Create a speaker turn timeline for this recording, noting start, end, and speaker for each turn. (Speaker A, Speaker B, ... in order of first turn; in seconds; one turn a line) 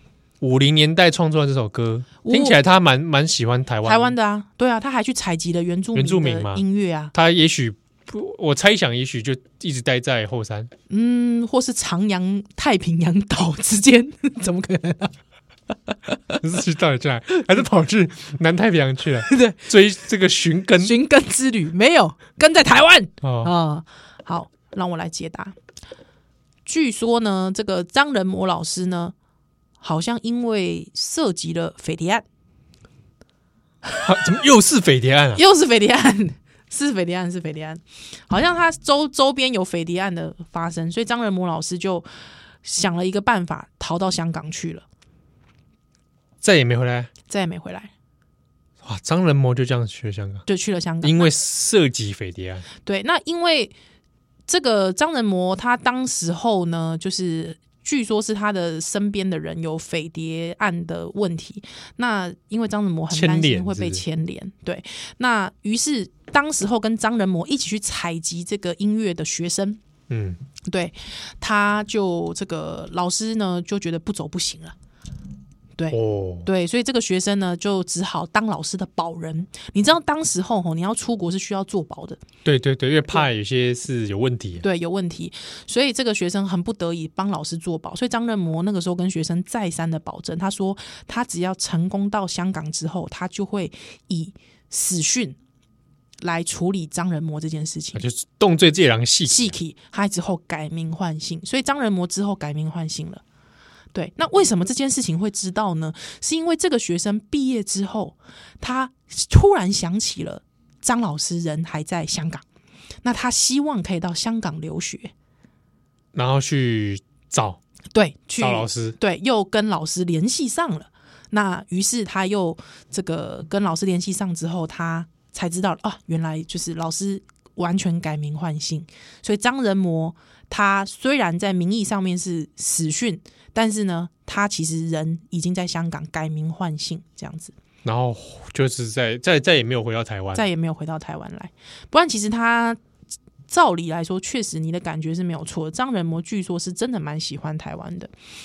Speaker A: 0.4-4.1
Speaker B: 2.2-2.6
Speaker B: 3.8-7.1
Speaker A: 5.9-10.7
Speaker B: 10.9-15.1
Speaker B: 15.9-16.4
Speaker A: 16.4-21.0
Speaker B: 19.2-19.7
Speaker B: 20.8-25.5
Speaker A: 23.2-23.5
Speaker B: 26.6-29.1
Speaker B: 29.8-32.2
Speaker A: 34.0-35.4
Speaker B: 35.4-42.0
Speaker B: 42.6-44.8
Speaker A: 46.4-47.1
Speaker B: 47.3-47.9
Speaker A: 48.8-50.4
Speaker B: 50.5-51.3
Speaker A: 51.0-52.7
Speaker B: 52.8-53.7
Speaker B: 54.5-69.8
Speaker A: 63.1-64.0
Speaker A: 70.1-70.4
Speaker B: 70.7-74.7
Speaker B: 75.8-82.2
Speaker A: 75.9-76.5
Speaker A: 82.4-84.6
Speaker B: 84.6-95.4
Speaker B: 96.2-98.0
Speaker A: 97.9-99.5
Speaker B: 99.3-103.2
Speaker B: 103.9-112.4
Speaker B: 113.0-115.1
Speaker A: 116.1-117.6
Speaker B: 117.9-137.5
Speaker A: 118.4-119.0
Speaker A: 137.8-140.4
Speaker B: 140.3-142.8
Speaker B: 143.5-148.1